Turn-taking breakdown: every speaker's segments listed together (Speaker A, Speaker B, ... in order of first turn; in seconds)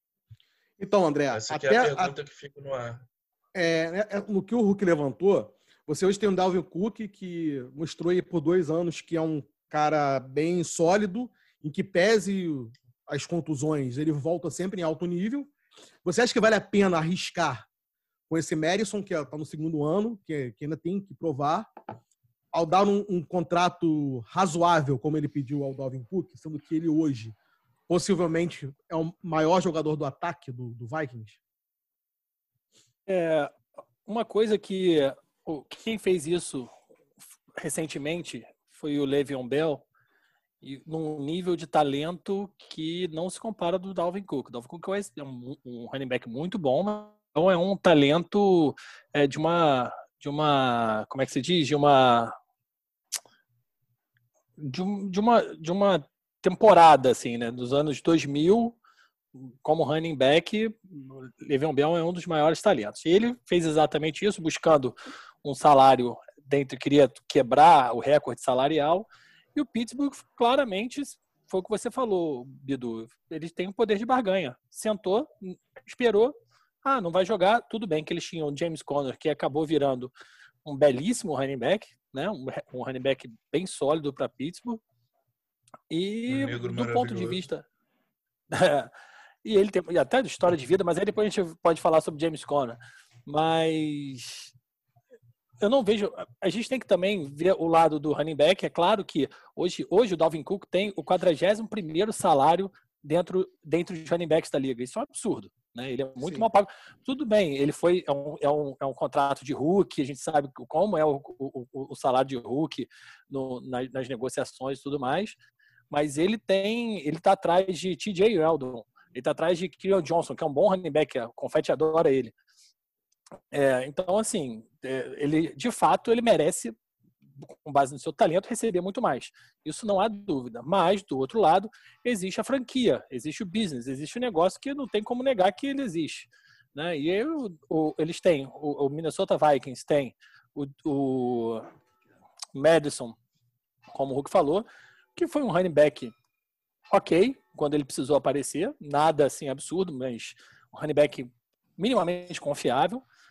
Speaker A: 0.8-2.1, 3.5-15.5, 16.0-17.7, 18.3-21.7, 22.5-27.3, 27.9-31.4, 106.2-106.4
Speaker B: 1.3-3.0, 86.3-87.4
Speaker C: 33.1-33.5, 34.0-36.7, 37.6-39.8, 40.6-52.3, 54.6-58.8, 59.6-80.1, 80.6-84.8, 85.9-87.6, 88.5-88.9, 89.4-94.5, 95.6-115.3, 115.9-122.3, 123.5-126.7, 127.4-141.7, 142.5-143.2, 143.9-146.1, 146.9-153.0